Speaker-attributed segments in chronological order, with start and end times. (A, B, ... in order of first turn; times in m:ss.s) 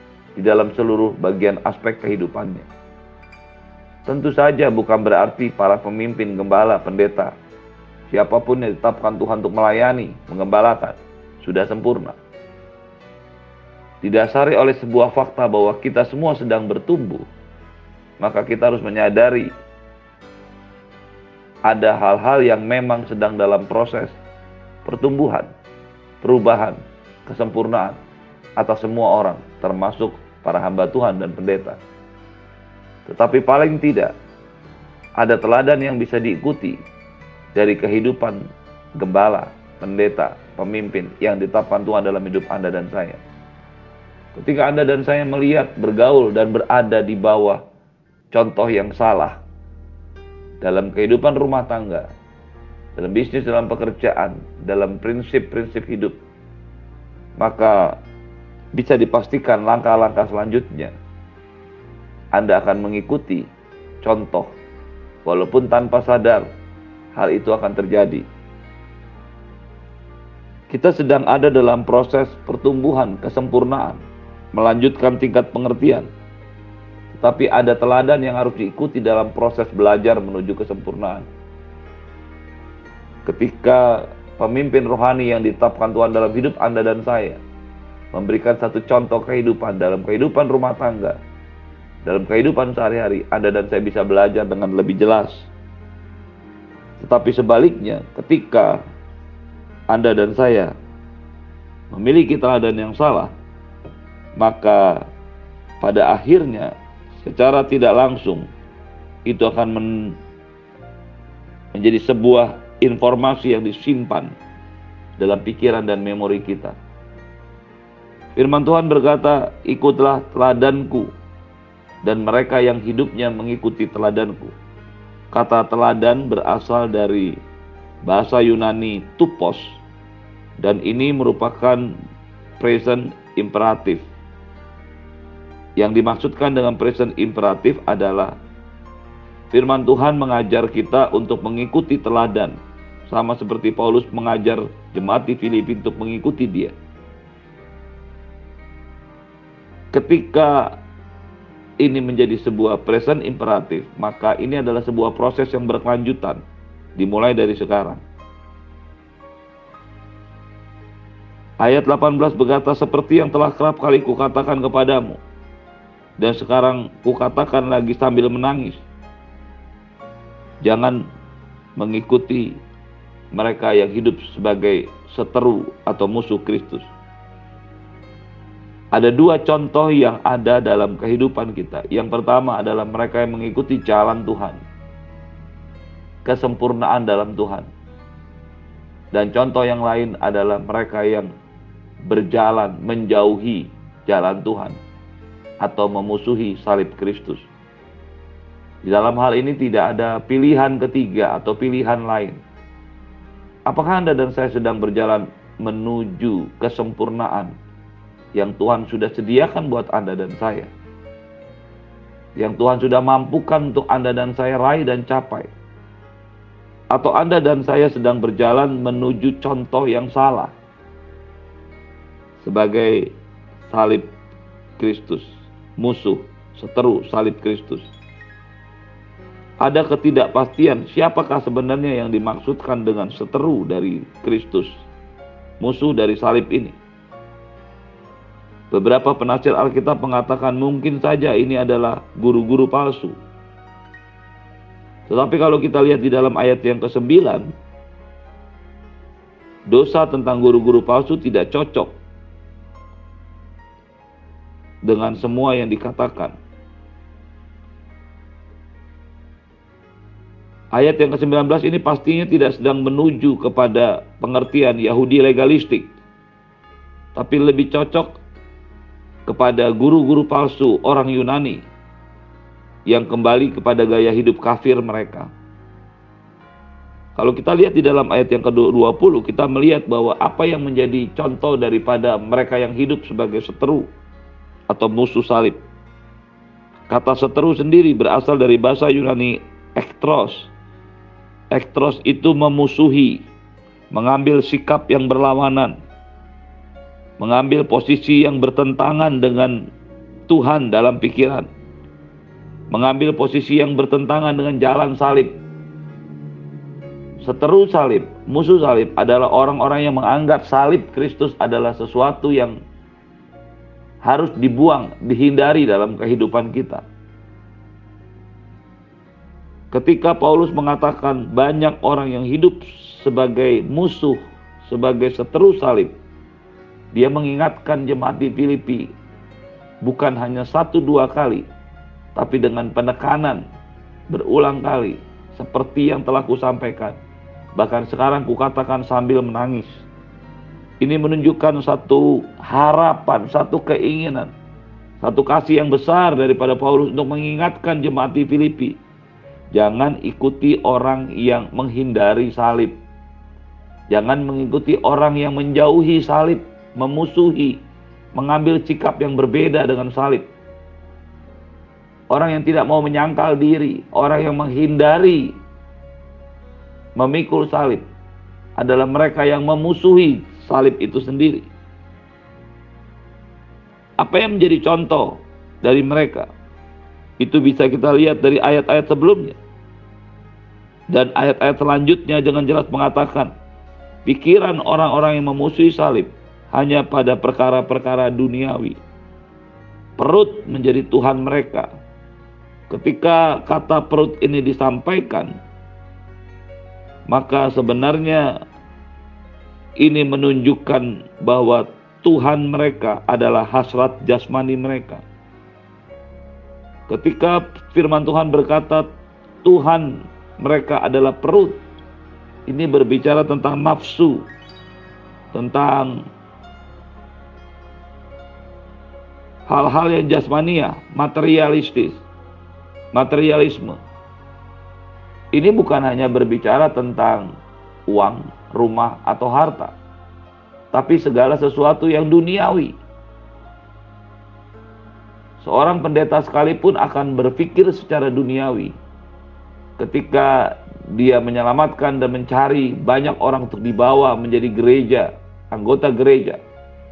0:00.4-0:02.7 A
0:04.0-0:07.3 A
0:08.1-0:12.2 A
0:14.0-0:17.2 A
0:18.2-0:19.5 A
0:21.6-0:24.2 A
0:24.8-0:25.5 A
0:26.2-0:28.0 A
0:28.6-0:31.8 A
0:33.0-0:34.1 A
0:35.2-0:36.8 A
0:37.5-0:38.4 A
0:39.0-0:43.2 A
0:44.3-0:47.6 A
0:48.3-0:49.4 A
0:50.6-0:52.1 A
0:53.0-0:56.1 A
0:57.4-0:58.0 A
0:58.7-1:00.9 A
1:02.3-1:03.5 A
1:04.0-1:04.5 A
1:05.2-1:06.4 A
1:07.1-1:08.2 A
1:10.7-1:14.0 A
1:14.5-1:16.1 A
1:17.1-1:21.2 A
1:23.2-1:27.4 A
1:28.1-1:31.2 A
1:32.0-1:35.5 A
1:37.0-1:38.8 A
1:39.9-1:40.7 A
1:41.9-1:43.3 A
1:44.4-1:45.0 A
1:45.8-1:48.5 A
1:49.3-1:50.2 A
1:51.7-1:54.3 A
1:55.2-1:56.8 A
1:58.3-2:01.1 A
2:02.0-2:04.5 A
2:05.3-2:07.4 A
2:08.0-2:09.8 A
2:10.6-2:12.0 A
2:12.6-2:14.0 A
2:15.8-2:18.3 A
2:19.5-2:22.6 A
2:23.1-2:26.7 A
2:29.9-2:30.8 A
2:31.8-2:36.4 A
2:37.0-2:38.0 A
2:41.6-2:45.2 A
2:46.2-2:48.8 A
2:50.6-2:51.0 A
2:51.8-2:52.6 A
2:53.3-2:56.9 A
2:58.9-3:04.6 A
3:06.2-3:07.7 A
3:09.1-3:11.3 A
3:12.0-3:14.8 A
3:15.6-3:17.5 A
3:18.8-3:22.4 A
3:23.6-3:27.5 A
3:28.3-3:30.7 A
3:32.4-3:35.5 A
3:36.9-3:40.5 A
3:42.4-3:43.1 A
3:43.7-3:44.1 A
3:44.8-3:47.9 A
3:49.6-3:54.8 A
3:55.6-3:56.8 A
3:58.7-4:03.2 A
4:05.1-4:07.5 A
4:09.7-4:12.0 A
4:14.8-4:16.4 A
4:20.7-4:26.0 A
4:27.1-4:28.2 A
4:29.2-4:31.6 A
4:32.9-4:35.3 A
4:37.2-4:43.9 A
4:44.7-4:45.6 A
4:46.9-4:50.5 A
4:51.5-4:53.3 A
4:53.9-4:55.8 A
4:57.2-4:59.7 A
5:00.3-5:01.5 A
5:02.7-5:05.4 A
5:07.2-5:12.6 A
5:14.0-5:16.8 A
5:19.7-5:25.9 A
5:26.9-5:28.9 A
5:29.8-5:31.5 A
5:32.2-5:33.4 A
5:34.1-5:37.0 A
5:37.5-5:39.8 A
5:40.8-5:44.3 A
5:45.0-5:48.8 A
5:49.5-5:52.8 A
5:53.9-5:57.6 A
5:58.1-6:00.3 A
6:02.1-6:05.4 A
6:07.0-6:07.8 A
6:08.6-6:11.5 A
6:14.0-6:16.3 A
6:17.2-6:19.4 A
6:20.9-6:23.3 A
6:24.0-6:28.8 A
6:30.0-6:31.7 A
6:32.7-6:35.3 A
6:37.1-6:38.3 A
6:39.8-6:45.0 A
6:46.9-6:48.9 A
6:49.4-6:51.6 A
6:52.5-6:54.3 A
6:55.3-6:56.0 A
6:59.5-7:02.0 A
7:02.9-7:03.8 A
7:05.3-7:07.3 A
7:07.9-7:09.7 A
7:10.7-7:12.8 A
7:15.4-7:18.7 A
7:19.8-7:26.4 A